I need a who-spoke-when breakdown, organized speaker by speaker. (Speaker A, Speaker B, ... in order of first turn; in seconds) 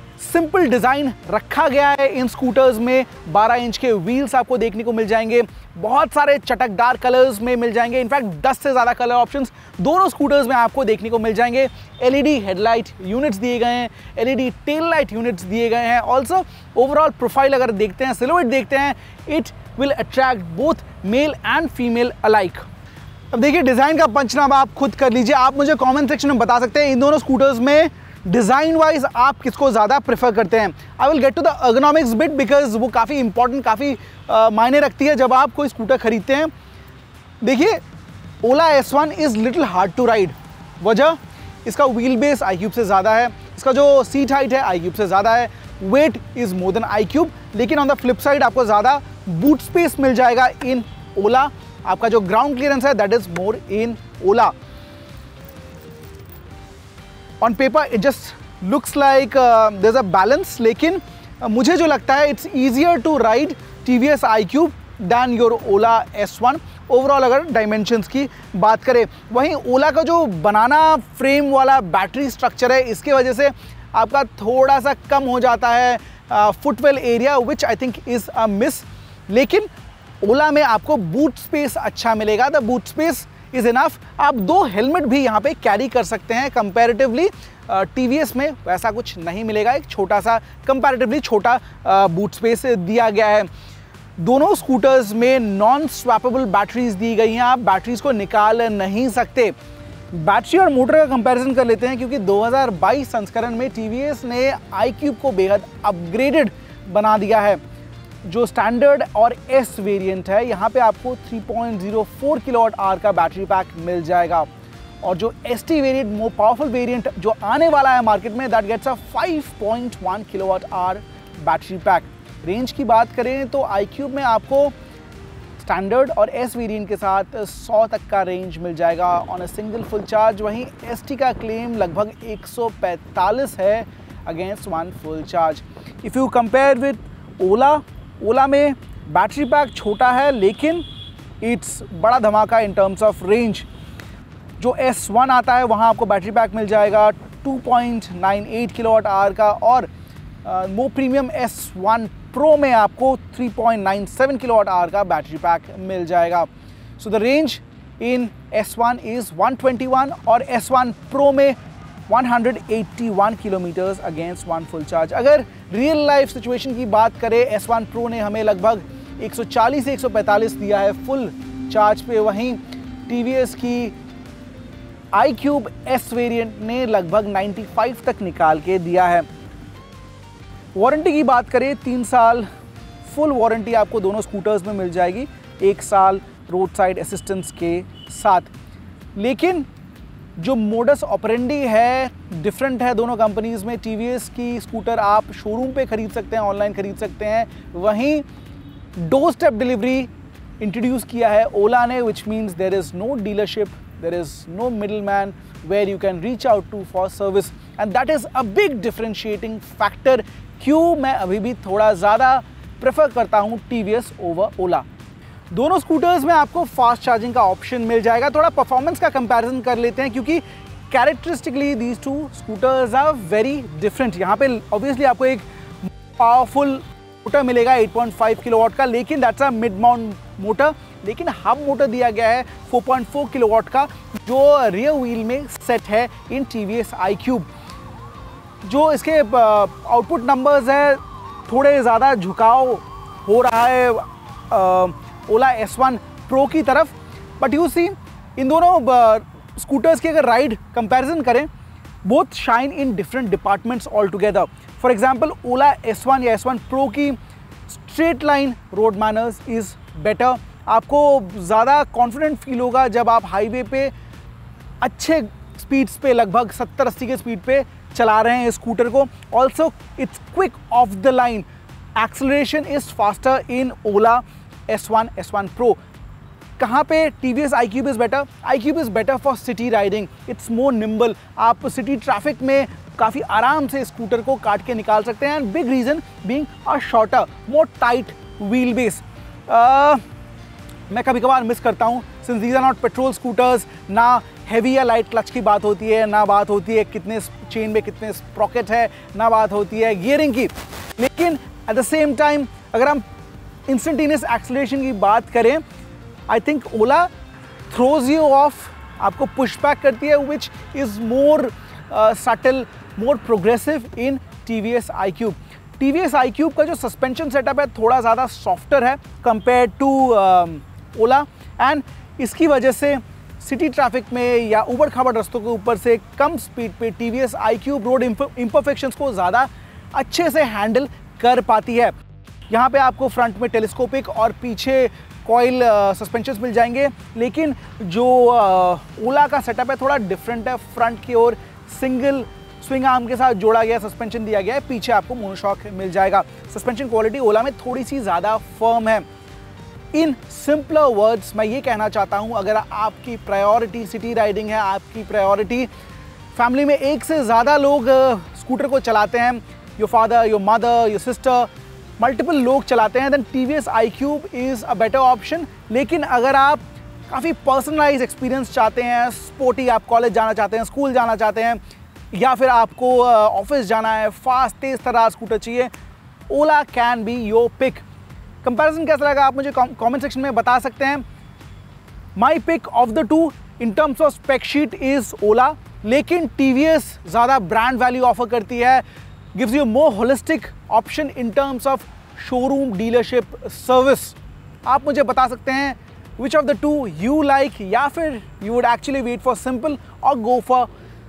Speaker A: 0.2-22.7, 23.3-36.5, 37.4-37.8, 38.4-54.5, 57.4-79.7, 80.2-93.5, 94.2-99.5, 100.1-107.6, 108.2-114.5, 115.0-124.7, 125.6-140.8, 141.4-143.7, 144.6-149.9, 150.4-156.5, 157.0-161.6, 162.1-173.9, 175.1-179.3, 180.8-182.5, 183.1-188.5, 189.2-189.7, 190.4-198.2, 199.0-200.1, 200.6-214.9, 215.5-225.4, 226.2-237.5, 238.6-251.5, 252.0-257.2, 257.7-263.9, 264.8-275.8, 276.6-290.0, 290.9-303.0, 303.7-305.6, 306.3-307.1, 307.7-331.9, 332.5-349.0, 349.9-355.7, 356.3-371.6, 372.1-375.7, 376.3-377.8, 378.4-381.0, 382.2-400.7